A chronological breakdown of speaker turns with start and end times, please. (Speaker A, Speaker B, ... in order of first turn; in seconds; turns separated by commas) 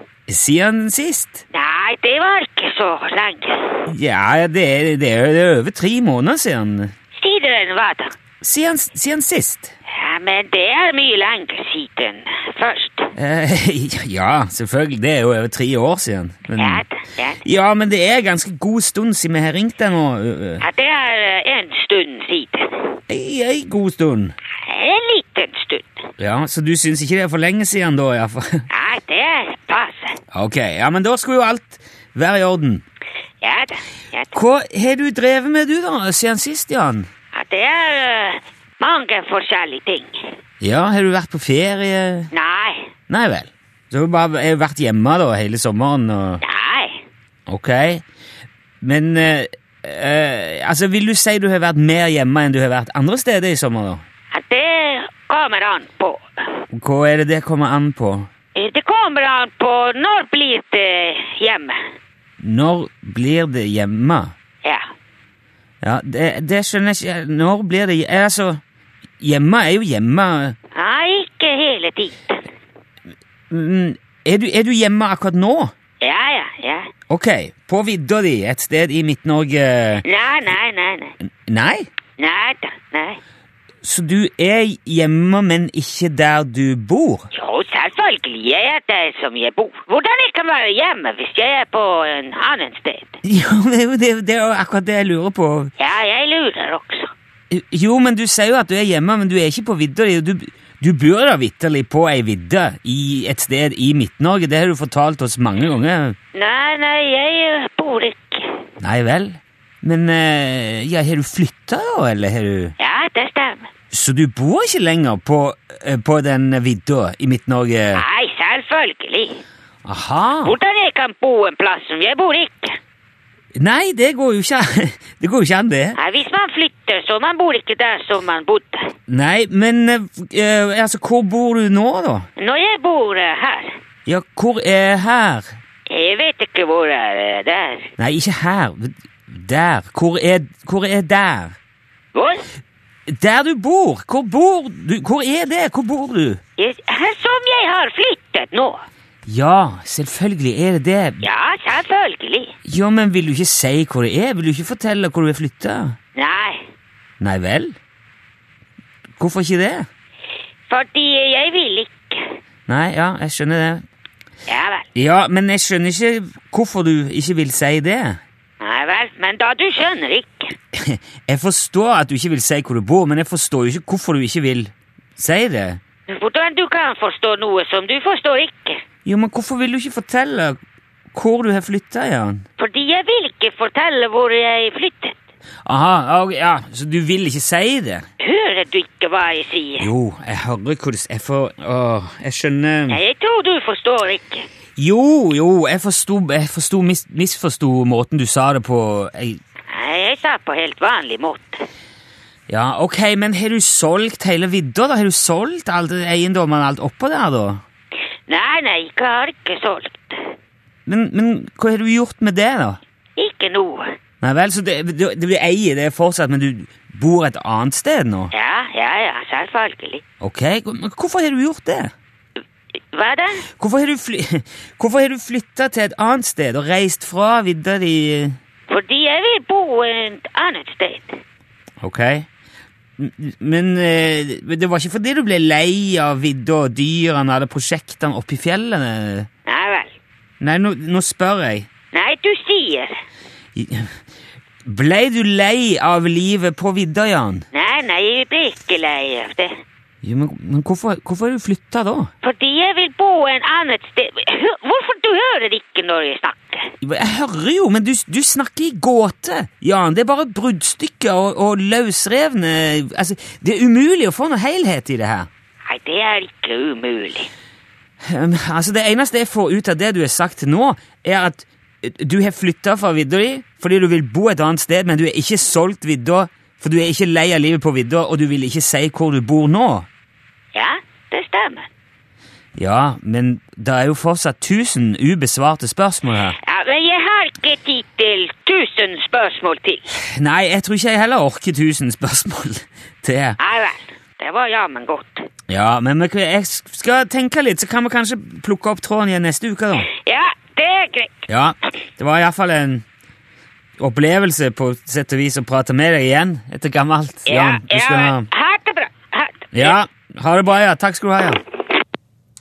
Speaker A: 0.3-1.4, Speaker B: 1.5-3.8, Speaker A: 3.9-6.9, Speaker B: 7.2-8.1, Speaker A: 8.4-9.7, Speaker B: 9.9-13.1, Speaker A: 13.1-16.8, Speaker B: 16.6-17.4, Speaker A: 17.4-20.6, Speaker B: 20.6-23.0, Speaker A: 23.1-24.3, Speaker B: 24.6-26.1, Speaker A: 26.2-28.7, Speaker B: 28.7-30.2, Speaker A: 30.3-32.8, Speaker B: 33.4-34.4, Speaker A: 34.3-37.1, Speaker B: 37.3-40.3, Speaker A: 40.6-42.3, Speaker B: 42.3-42.9, Speaker A: 43.1-46.4, Speaker B: 46.4-47.0, Speaker A: 47.5-48.0, Speaker A: 48.8-54.0, Speaker B: 54.3-56.2, Speaker A: 56.7-58.3, Speaker B: 58.5-61.8, Speaker A: 62.4-64.3, Speaker A: 65.8-68.6, Speaker A: 69.2-70.5, Speaker B: 70.7-72.4, Speaker A: 73.5-75.7, Speaker B: 76.0-76.9, Speaker A: 77.1-80.0, Speaker B: 80.0-81.1, Speaker A: 81.5-81.9, Speaker B: 82.2-83.2, Speaker A: 83.8-87.3, Speaker B: 87.3-93.2, Speaker A: 93.2-95.7, Speaker B: 95.8-97.1, Speaker A: 97.5-106.2, Speaker B: 106.3-108.6, Speaker A: 108.8-112.7, Speaker B: 112.8-113.7, Speaker A: 113.9-118.0, Speaker B: 117.9-119.4, Speaker A: 119.8-120.5, Speaker B: 120.4-122.8, Speaker A: 123.5-126.0, Speaker B: 125.9-128.9, Speaker A: 129.1-132.3, Speaker B: 132.4-133.7, Speaker A: 134.1-135.6, Speaker B: 135.9-137.9, Speaker A: 138.0-141.6, Speaker B: 142.1-142.4, Speaker A: 143.1-146.4, Speaker B: 146.6-148.8, Speaker A: 149.3-151.2, Speaker B: 151.2-152.5, Speaker A: 152.6-156.0, Speaker B: 156.2-156.7, Speaker A: 157.2-157.8, Speaker A: 159.2-159.9, Speaker B: 160.7-162.3, Speaker A: 162.7-163.8, Speaker B: 164.5-164.9, Speaker A: 164.9-168.2, Speaker B: 168.6-170.5, Speaker A: 170.7-175.8, Speaker B: 176.1-178.8, Speaker A: 179.0-180.6, Speaker A: 181.1-182.4, Speaker B: 182.6-185.1, Speaker A: 185.6-188.1, Speaker B: 188.2-189.9, Speaker A: 189.8-193.0, Speaker B: 192.9-194.5, Speaker A: 194.8-199.4, Speaker B: 199.7-201.7, Speaker A: 202.5-207.6, Speaker B: 208.3-210.3, Speaker A: 210.8-212.8, Speaker B: 213.2-213.9, Speaker A: 214.2-218.3, Speaker B: 218.3-220.0, Speaker A: 220.2-221.9, Speaker B: 222.9-223.4, Speaker A: 223.5-228.4, Speaker B: 228.7-231.2, Speaker A: 231.8-232.3, Speaker A: 233.0-239.3, Speaker B: 239.5-239.9, Speaker A: 240.4-241.7, Speaker B: 241.9-243.0, Speaker A: 243.6-244.0, Speaker A: 244.6-247.4, Speaker B: 247.5-249.5, Speaker A: 250.0-252.1, Speaker B: 252.2-256.7, Speaker A: 256.8-265.3, Speaker B: 265.7-267.3, Speaker A: 268.0-279.9, Speaker B: 280.5-281.7, Speaker A: 282.6-286.4, Speaker B: 286.4-289.9, Speaker A: 290.1-293.4, Speaker B: 293.4-295.3, Speaker A: 295.5-299.9, Speaker B: 299.9-301.2, Speaker A: 301.3-302.8, Speaker A: 303.8-308.3, Speaker B: 307.3-309.8, Speaker A: 309.5-311.4